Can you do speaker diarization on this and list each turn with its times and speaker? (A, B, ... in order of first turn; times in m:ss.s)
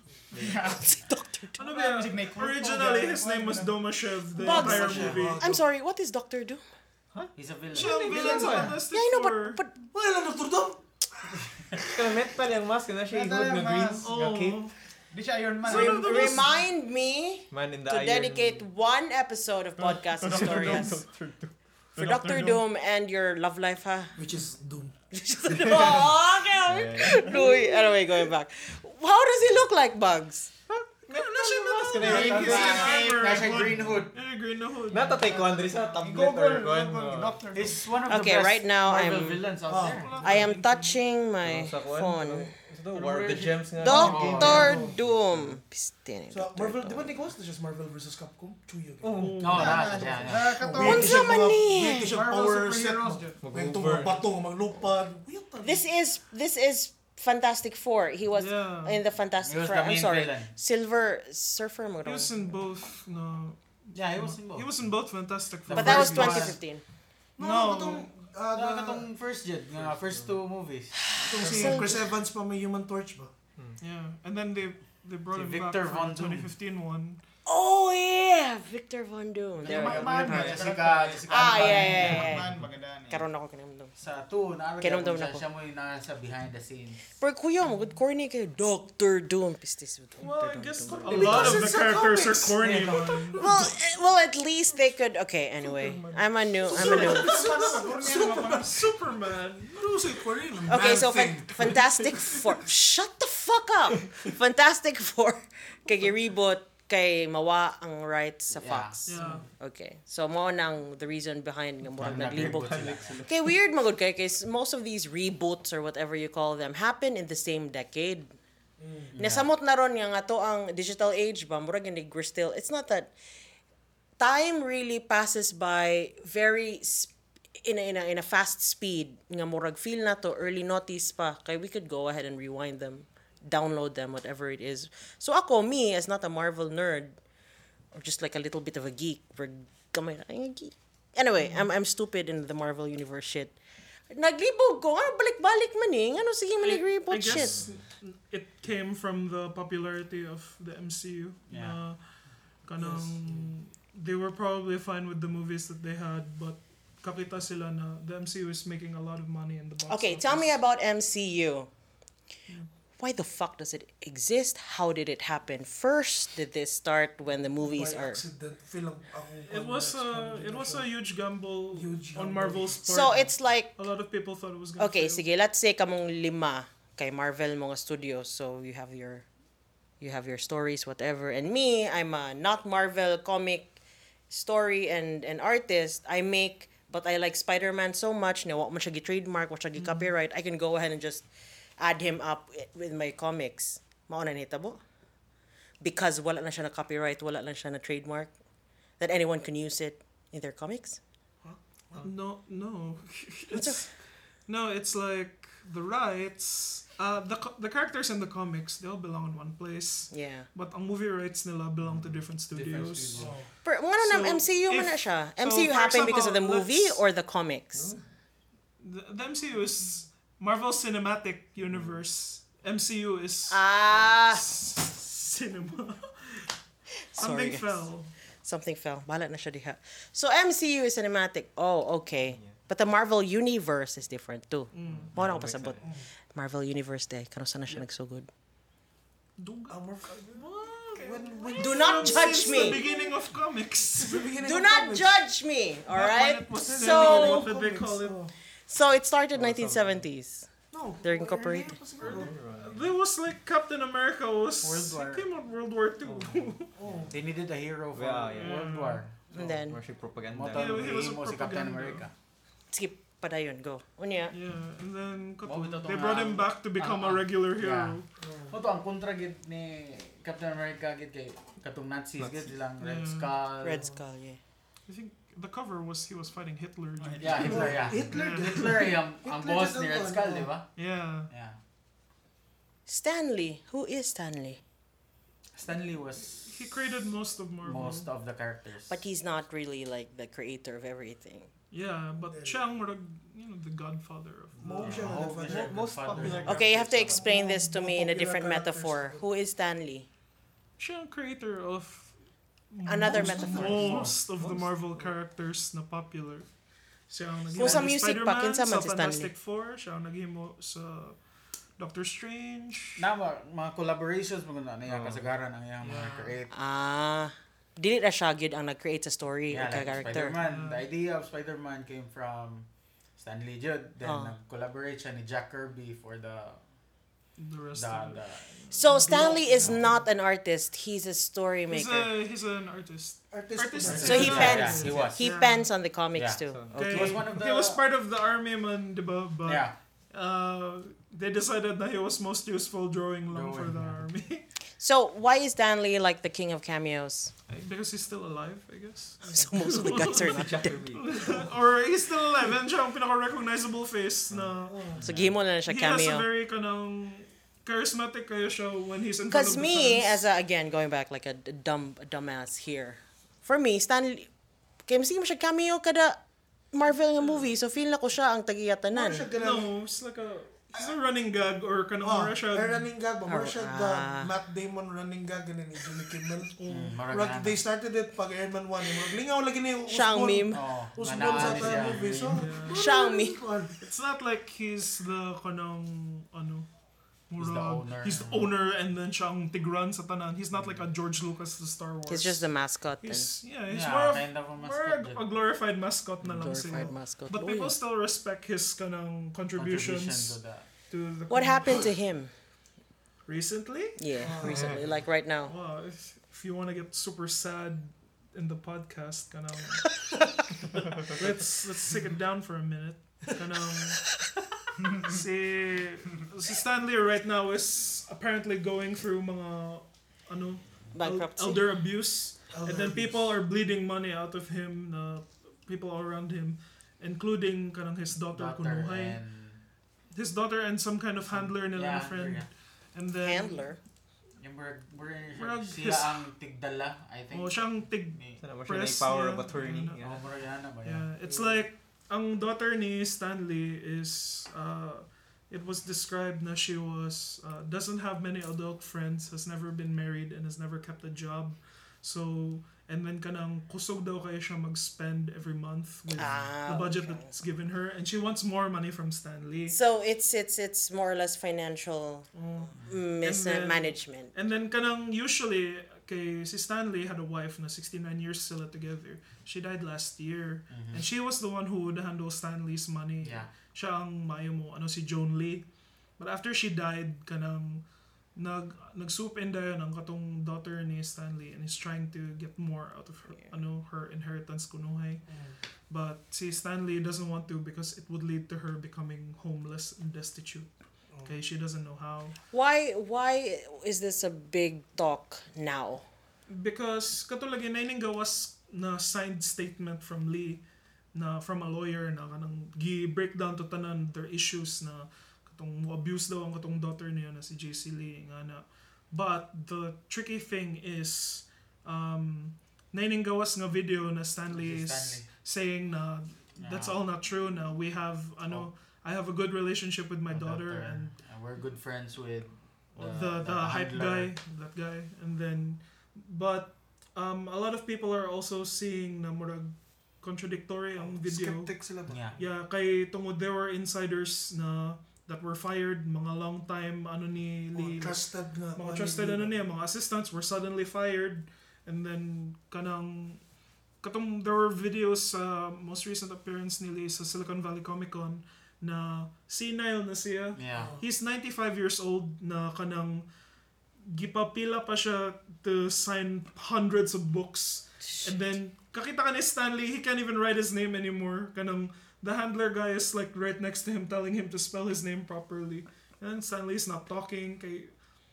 0:00.3-0:00.9 A
0:00.7-0:01.6 B
0:01.6-0:05.4 C
0:01.6-0:04.0 A
0:04.4-0:06.6 B
0:04.4-0:05.6 D
0:04.9-0:05.2 E
0:07.4-0:08.7 E
0:07.7-0:09.6 C
0:08.1-0:08.6 A
0:08.2-0:08.7 D
0:08.9-0:09.8 B
0:09.9-0:11.3 D
0:11.9-0:14.7 F
0:13.1-0:14.2 A
0:14.0-0:14.7 C
0:15.1-0:16.5 A
0:15.6-0:16.6 C
0:15.7-0:21.0 B
0:17.5-0:18.6 F
0:20.2-0:21.0 A
0:20.2-0:21.6 F
0:22.0-0:22.6 A
0:22.0-0:24.2 B
0:24.2-0:25.0 D
0:25.1-0:30.5 B
0:25.7-0:27.6 F
0:30.7-0:33.0 F
0:31.1-0:35.3 C
0:32.0-0:33.7 A
0:32.0-0:34.2 E
0:34.9-0:37.4 F
0:35.3-0:37.8 A
0:37.5-0:40.1 E
0:38.1-0:39.5 B
0:39.7-0:40.3 D
0:39.8-0:41.0 C
0:40.2-0:42.5 B
0:41.4-0:45.6 F
0:42.9-0:44.8 E
0:43.8-0:47.1 B
0:44.4-0:44.9 D
0:46.3-0:55.8 D
0:49.0-0:49.7 F
0:49.2-0:49.8 C
0:49.4-0:50.5 E
0:49.5-0:53.5 A
0:50.8-0:52.1 B
0:53.4-0:54.3 F
0:55.6-1:02.3 B
0:58.4-0:59.0 C
0:59.4-1:00.5 E
1:02.0-1:06.6 C
1:03.9-1:05.0 E
1:05.7-1:06.6 E
1:05.7-1:06.8 B
1:07.4-1:09.1 D
1:07.4-1:08.1 C
1:08.5-1:11.0 E
1:09.8-1:10.4 F
1:11.0-1:12.0 B
1:11.2-1:11.7 F
1:11.3-1:13.3 D
1:13.8-1:17.2 C
1:15.3-1:16.5 E
1:17.5-1:20.8 B
1:19.6-1:23.3 A
1:19.6-1:22.3 E
1:21.3-1:22.5 B
1:22.0-1:22.7 F
1:23.1-1:24.0 B
1:24.0-1:27.0 E
1:24.8-1:25.4 B
1:27.2-1:31.7 B
1:30.2-1:33.4 C
1:31.0-1:33.6 D
1:33.4-1:37.4 B
1:35.6-1:39.8 C
1:36.7-1:38.8 D
1:36.8-1:38.8 A
1:39.7-1:42.5 D
1:40.7-1:58.3 B
1:48.5-1:49.0 E
1:49.1-1:49.5 C
1:49.2-1:49.5 D
1:52.0-1:53.2 E
1:52.0-1:53.5 F
1:58.8-1:59.1 D
1:59.1-1:59.5 E
1:59.2-2:03.1 B
2:04.2-2:17.1 B
2:17.9-2:23.6 B
2:21.4-2:21.7 C
2:24.1-2:27.6 B
2:26.6-2:32.0 C
2:27.3-2:27.7 F
2:31.5-2:31.8 E
2:32.6-2:40.5 C
2:32.8-2:33.3 D
2:39.9-2:41.7 B
2:43.0-2:48.2 B
2:47.6-2:50.9 D
2:49.5-2:55.2 C
2:51.7-2:52.8 D
2:52.8-2:53.8 B
2:54.8-2:59.3 B
3:00.0-3:03.8 B
3:04.3-3:11.3 B
3:09.8-3:10.1 C
3:11.8-3:14.8 B
3:15.8-3:18.3 B
3:19.0-3:21.0 B
3:21.4-3:22.1 D
3:22.0-3:33.4 C
3:23.5-3:23.9 B
3:30.1-3:30.5 B
3:31.8-3:33.4 F
3:33.2-3:33.5 D
3:33.6-3:37.9 B
3:34.0-3:37.0 C
3:37.8-3:38.0 F
3:38.8-3:43.6 C
3:41.7-3:42.0 F
3:43.5-3:44.4 B
3:44.3-3:46.5 C
3:47.1-3:47.9 B
3:47.2-3:48.1 C
3:48.4-3:55.8 B
3:54.7-3:55.1 C
3:54.8-3:55.8 F
3:55.8-3:56.1 D
3:56.3-3:58.3 B
3:59.4-4:04.3 C
3:59.7-4:03.3 D
4:01.6-4:02.8 B
4:03.9-4:05.1 D
4:04.4-4:07.5 B
4:05.9-4:08.2 C
4:06.6-4:08.3 D
4:08.7-4:10.5 B
4:09.3-4:10.1 F
4:10.7-4:12.4 D
4:11.0-4:11.8 B
4:12.0-4:12.9 F
4:12.0-4:16.7 C
4:14.6-4:15.3 E
4:16.0-4:17.1 F
4:16.8-4:17.2 D
4:17.1-4:19.3 E
4:17.9-4:18.8 F
4:18.4-4:19.0 C
4:19.3-4:21.1 F
4:19.3-4:19.8 B
4:20.3-4:22.1 E
4:20.5-4:22.1 C
4:22.7-4:24.3 B
4:24.3-4:28.1 C
4:25.4-4:33.9 E
4:28.2-4:28.6 D
4:32.2-4:32.5 F
4:32.8-4:33.3 C
4:33.6-4:34.4 B
4:34.9-4:38.8 C
4:37.0-4:37.9 A
4:37.2-4:41.6 E
4:37.4-4:40.5 D
4:40.8-4:41.3 C
4:42.9-4:44.6 B
4:45.5-4:46.7 E
4:46.4-4:48.1 C
4:47.6-4:49.0 E
4:48.9-4:51.5 B
4:51.7-4:55.2 C
4:52.3-4:52.6 D
4:54.6-4:56.4 D
4:54.7-4:56.7 F
4:54.8-4:57.3 E
4:56.2-4:56.5 C
4:56.5-5:00.1 B
4:57.1-4:59.2 D
5:00.8-5:02.2 C
5:02.7-5:06.5 C
5:02.9-5:04.1 B
5:03.2-5:04.1 D
5:03.9-5:05.1 F
5:07.1-5:11.2 C
5:07.5-5:09.3 B
5:07.6-5:07.9 E
5:11.8-5:13.0 C
5:13.0-5:16.5 E
5:14.9-5:15.3 F
5:15.8-5:16.3 C
5:16.5-5:20.4 B
5:19.5-5:26.6 E
5:20.4-5:20.8 C
5:24.0-5:24.4 B
5:27.4-5:29.3 C
5:27.7-5:28.5 E
5:28.7-5:32.2 B
5:28.9-5:29.9 D
5:29.6-5:29.8 E
5:31.7-5:35.7 C
5:33.3-5:34.9 D
5:33.8-5:35.2 E
5:34.0-5:36.6 B
5:36.2-5:37.8 E
5:36.5-5:37.2 F
5:36.7-5:44.4 C
5:39.4-5:39.8 E
5:43.3-5:44.0 E
5:44.8-5:47.3 B
5:47.5-5:54.9 C
5:49.3-5:50.7 B
5:50.1-5:51.3 F
5:51.2-5:51.5 D
5:54.7-5:55.0 D
5:55.0-5:55.4 E
5:55.0-5:56.3 B
5:55.7-6:00.2 C
5:59.3-6:04.3 B
6:04.9-6:06.2 B
6:06.7-6:09.3 B
6:08.9-6:09.7 D
6:09.4-6:12.9 C
6:12.0-6:16.6 D
6:13.3-6:14.3 B
6:16.6-6:17.0 C
6:16.7-6:17.6 E
6:17.1-6:23.8 D
6:19.9-6:20.6 B
6:20.5-6:22.5 E
6:21.4-6:23.0 C
6:22.7-6:23.4 B
6:23.8-6:26.7 C
6:27.3-6:32.5 C
6:27.4-6:28.5 E
6:32.1-6:33.3 B
6:33.0-6:40.4 C
6:33.7-6:35.2 E
6:36.4-6:37.8 B
6:39.6-6:40.7 E
6:40.9-6:41.9 C
6:41.3-6:42.3 B
6:43.3-6:44.0 C
6:44.0-6:45.5 B
6:44.2-6:44.8 D
6:44.4-6:44.8 F
6:45.5-6:50.0 C
6:51.0-6:54.2 C
6:54.8-6:55.2 A
6:55.0-7:09.2 C
7:01.0-7:01.6 B
7:02.5-7:03.3 D
7:08.3-7:09.6 E
7:10.1-7:13.7 C
7:11.2-7:12.5 E
7:13.2-7:13.8 B
7:14.4-7:18.4 E
7:15.4-7:16.2 C
7:17.3-7:20.0 C
7:18.4-7:20.3 F
7:20.0-7:21.1 E
7:20.8-7:39.8 C
7:21.3-7:21.7 F
7:36.2-7:36.4 E
7:36.2-7:37.3 B
7:39.7-7:44.3 B
7:42.3-7:55.6 C
7:50.7-7:51.1 E
7:53.2-7:53.5 E
7:56.2-7:57.8 C
7:58.4-8:05.3 C
8:05.3-8:05.6 D
8:05.9-8:10.7 C
8:11.2-8:12.4 C
8:12.5-8:16.0 B
8:16.5-8:20.6 C
8:21.1-8:41.1 C
8:34.5-8:35.3 E
8:36.6-8:37.0 E
8:40.3-8:44.3 E
8:43.0-8:51.7 C
8:51.0-8:52.3 D
8:52.1-8:52.4 E
8:52.4-9:03.4 C
8:57.7-8:59.5 D
9:04.0-9:13.2 C
9:10.6-9:10.9 E
9:10.7-9:11.0 D
9:14.1-9:27.9 C
9:18.1-9:18.3 B